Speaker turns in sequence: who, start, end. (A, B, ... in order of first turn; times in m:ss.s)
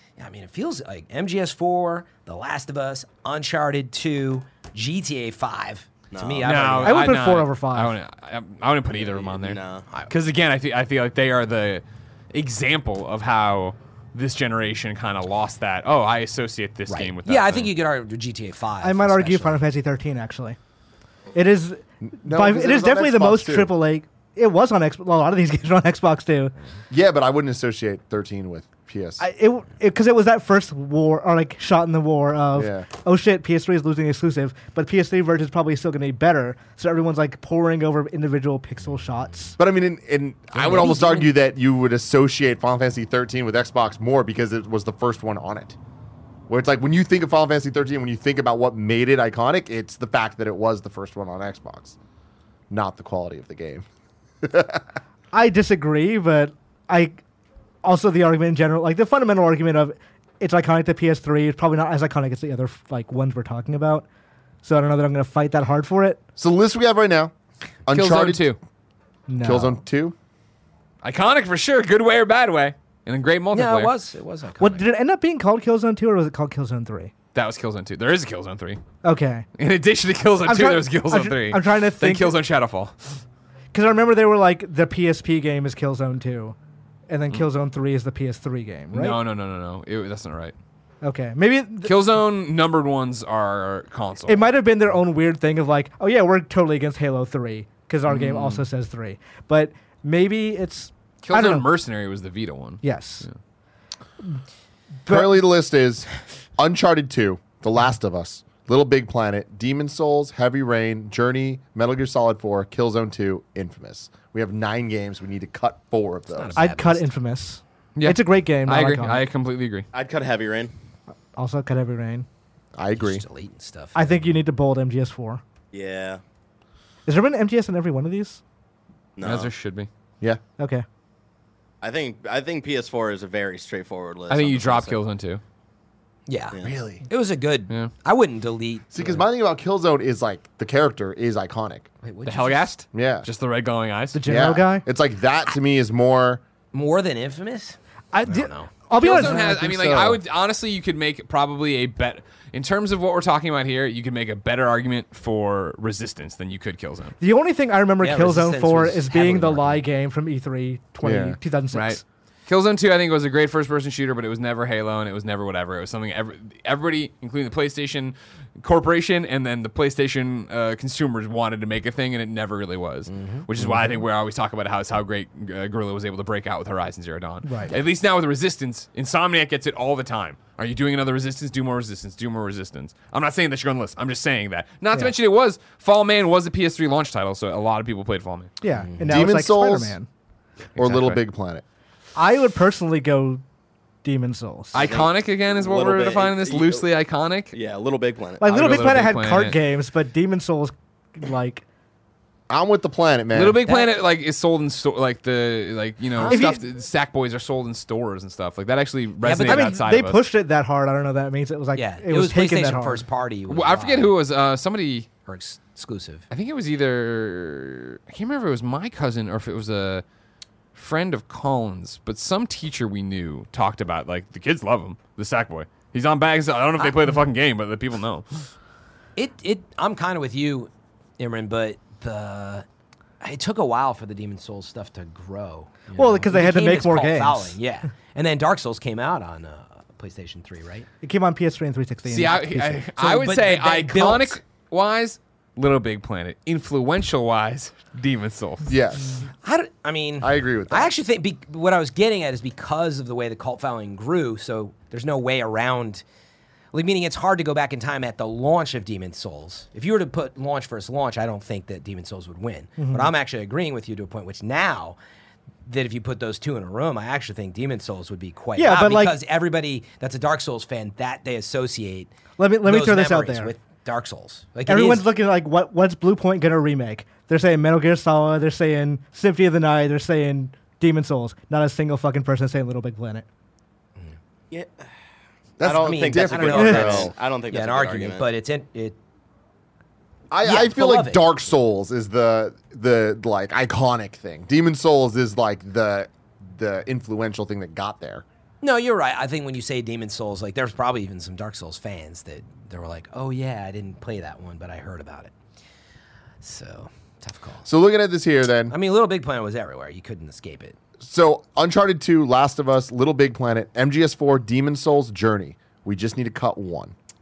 0:00.2-0:07.1 A
0:06.1-0:06.8 B
0:06.4-0:09.6 C
0:06.8-0:07.9 D
0:08.9-0:09.8 B
0:10.1-0:17.7 C
0:16.9-0:19.6 A
0:18.8-0:20.6 D
0:21.3-0:26.5 D
0:22.0-0:23.7 E
0:26.9-0:29.2 E
0:29.2-0:39.6 D
0:32.5-0:32.9 E
0:39.6-0:45.8 E
0:46.5-0:52.0 E
0:52.7-0:53.8 E
0:54.4-0:54.8 E
0:55.3-0:57.2 D
0:57.8-1:04.0 D
1:04.6-1:06.2 D
1:06.4-1:07.3 E
1:07.8-1:08.5 E
1:07.9-1:08.6 C
1:09.3-1:09.8 D
1:09.4-1:10.2 E
1:11.0-1:13.9 C
1:13.5-1:14.8 A
1:14.6-1:17.1 D
1:17.3-1:18.8 C
1:19.0-1:19.4 D
1:19.6-1:22.9 C
1:20.4-1:22.4 D
1:23.7-1:26.6 D
1:27.1-1:29.2 D
1:28.9-1:30.5 C
1:31.0-1:31.9 D
1:31.8-1:34.5 C
1:34.3-1:41.7 D
1:38.1-1:38.6 C
1:41.2-1:43.3 C
1:42.8-1:43.2 D
1:45.0-1:45.4 D
1:45.1-1:56.6 E
1:56.3-1:57.1 A
1:56.6-1:59.2 D
1:58.0-1:59.9 C
1:59.9-2:00.7 B
2:01.4-2:02.2 D
2:02.7-2:03.2 E
2:03.0-2:04.3 A
2:03.9-2:05.4 D
2:05.7-2:06.2 B
2:07.0-2:08.4 D
2:09.2-2:09.5 B
2:09.2-2:09.9 C
2:10.6-2:10.8 D
2:11.8-2:15.0 B
2:14.3-2:15.4 C
2:16.3-2:19.2 A
2:16.6-2:17.0 E
2:18.9-2:21.9 E
2:22.0-2:22.7 A
2:22.2-2:24.2 C
2:22.9-2:23.3 E
2:24.1-2:24.8 D
2:24.2-2:26.4 E
2:26.7-2:28.7 A
2:28.1-2:30.1 D
2:28.9-2:37.1 C
2:29.4-2:30.1 E
2:37.2-2:42.0 D
2:38.0-2:39.8 A
2:41.0-2:41.4 E
2:41.7-3:08.5 C
2:53.1-2:53.4 A
2:57.4-2:57.8 D
3:08.6-3:10.1 D
3:08.7-3:09.2 A
3:09.0-3:10.0 E
3:10.7-3:11.2 C
3:10.8-3:11.6 E
3:12.2-3:13.4 D
3:14.0-3:14.8 D
3:14.7-3:17.5 C
3:14.8-3:16.8 B
3:17.5-3:18.4 B
3:18.4-3:21.6 D
3:18.4-3:19.6 C
3:22.5-3:23.6 E
3:23.3-3:30.2 C
3:23.6-3:23.9 A
3:26.1-3:26.6 A
3:26.2-3:26.6 D
3:29.2-3:29.8 A
3:29.4-3:33.0 D
3:31.7-3:34.2 A
3:33.5-3:35.1 C
3:35.3-3:36.2 A
3:36.3-3:40.0 C
3:40.7-3:48.5 C
3:49.2-3:52.6 A
3:53.2-4:00.9 A
3:56.0-3:57.6 D
4:01.0-4:02.8 D
4:02.0-4:08.7 C
4:03.0-4:04.4 A
4:08.6-4:09.0 E
4:09.4-4:16.0 A
4:10.2-4:10.9 E
4:16.7-4:25.0 A
4:22.8-4:23.1 D
4:25.6-4:32.1 A
4:28.6-4:29.2 D
4:32.4-4:33.5 D
4:32.6-4:35.1 A
4:34.6-4:43.2 D
4:44.5-4:44.9 B
4:45.6-4:47.1 E
4:45.6-4:48.3 B
4:45.8-4:49.0 A
4:46.6-4:46.8 D
4:50.3-4:58.2 E
4:50.4-4:51.2 A
4:58.6-5:05.3 A
5:06.4-5:07.7 A
5:07.6-5:08.7 E
5:08.7-5:10.8 A
5:11.0-5:16.9 E